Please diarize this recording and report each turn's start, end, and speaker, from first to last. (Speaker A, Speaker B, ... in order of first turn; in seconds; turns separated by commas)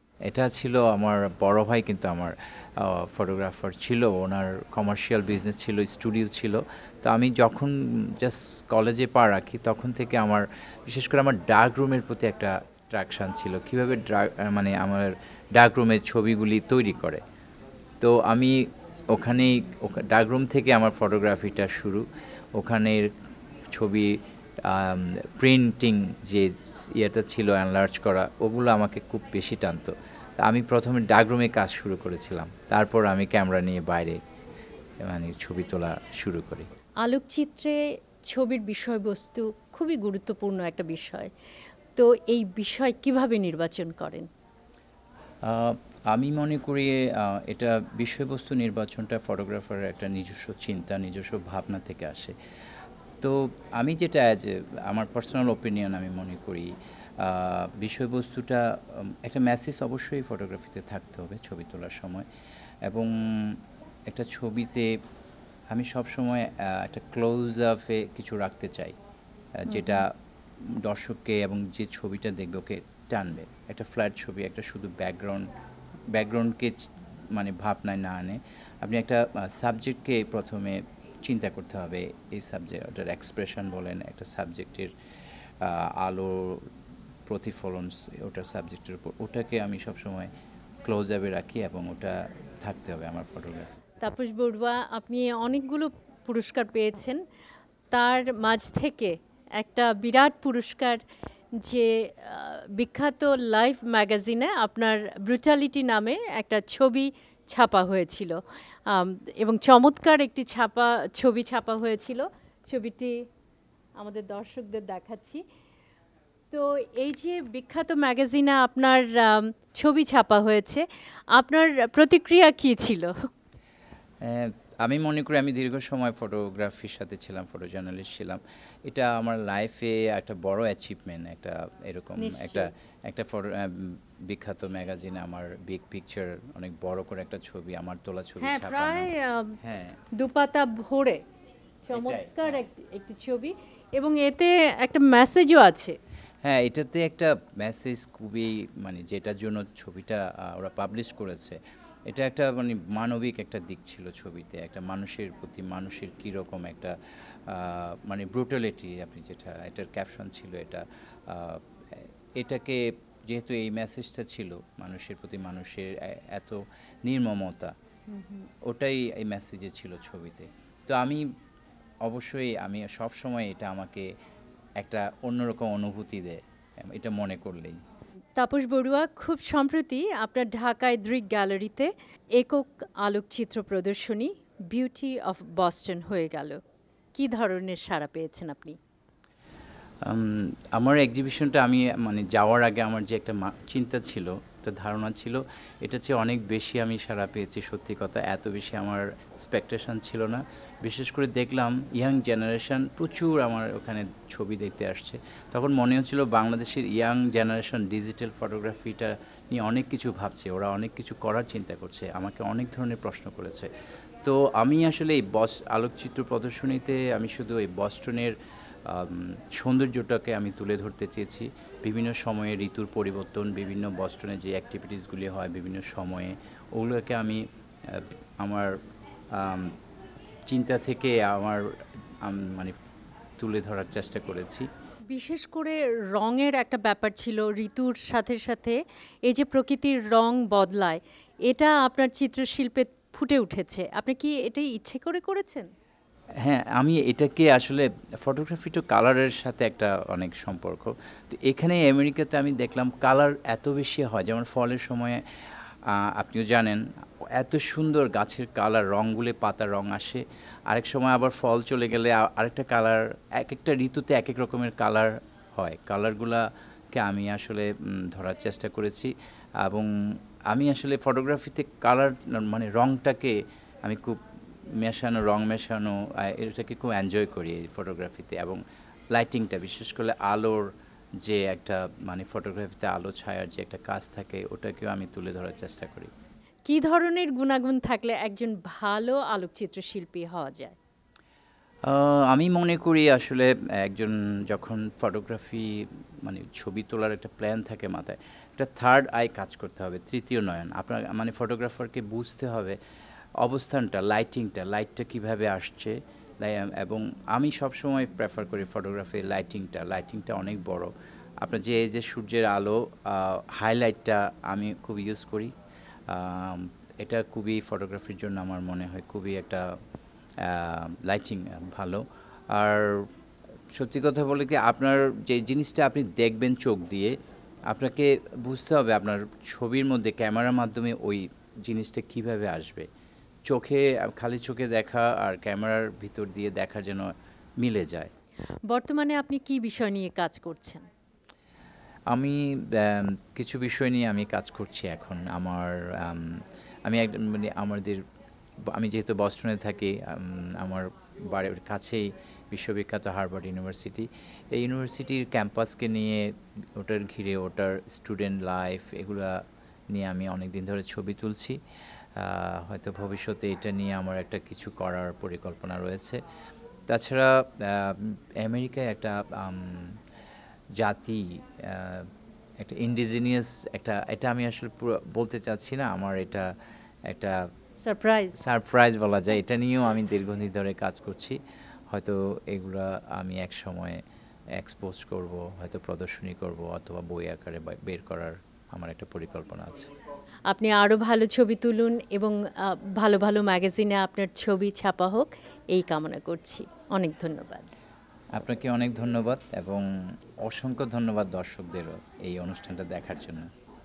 Speaker A: 0.3-17.2, Speaker A: 18.0-23.1, Speaker A: 23.7-34.2, Speaker A: 35.0-36.7, Speaker B: 37.0-37.8, Speaker B: 38.3-41.3, Speaker B: 42.0-44.3, Speaker A: 45.4-52.3, Speaker A: 53.2-62.2, Speaker A: 62.8-64.9, Speaker A: 65.7-68.9, Speaker A: 69.6-75.5, Speaker B: 69.7-70.0, Speaker A: 76.1-84.9, Speaker A: 85.6-86.7, Speaker A: 87.3-90.3, Speaker A: 90.8-93.8, Speaker B: 94.0-97.2, Speaker B: 97.9-101.0, Speaker B: 101.6-108.4, Speaker B: 108.9-113.2, Speaker B: 114.0-115.4, Speaker B: 116.5-123.1, Speaker A: 124.2-139.1, Speaker B: 132.2-132.7, Speaker B: 138.4-139.6, Speaker A: 139.6-139.9, Speaker B: 140.2-141.2, Speaker B: 141.8-145.9, Speaker A: 141.9-142.6, Speaker A: 146.4-167.7, Speaker B: 168.1-168.5, Speaker A: 168.6-171.2, Speaker A: 172.0-174.1, Speaker A: 174.8-177.8, Speaker B: 178.4-186.6, Speaker B: 187.1-188.8, Speaker A: 190.0-213.7, Speaker A: 214.2-218.3, Speaker A: 218.8-228.8, Speaker A: 229.3-229.8, Speaker A: 230.5-232.7, Speaker A: 233.4-234.7, Speaker B: 235.1-245.7, Speaker A: 246.4-269.9, Speaker A: 270.5-274.2, Speaker A: 274.8-278.6, Speaker A: 279.1-280.6, Speaker A: 281.2-286.1, Speaker B: 286.6-290.8, Speaker A: 291.8-302.8, Speaker A: 303.4-315.5, Speaker A: 316.1-319.7, Speaker A: 320.4-323.1, Speaker A: 323.7-327.1, Speaker A: 327.7-332.9, Speaker A: 333.5-338.1, Speaker B: 338.7-340.8, Speaker A: 342.1-348.0, Speaker A: 348.7-361.6, Speaker A: 362.2-366.2, Speaker A: 366.9-370.0, Speaker A: 370.8-376.5, Speaker A: 377.1-377.5, Speaker B: 377.8-378.4, Speaker A: 378.4-381.4, Speaker A: 381.9-384.0, Speaker A: 384.6-389.9, Speaker B: 390.5-397.6, Speaker A: 398.4-399.8, Speaker A: 400.4-403.5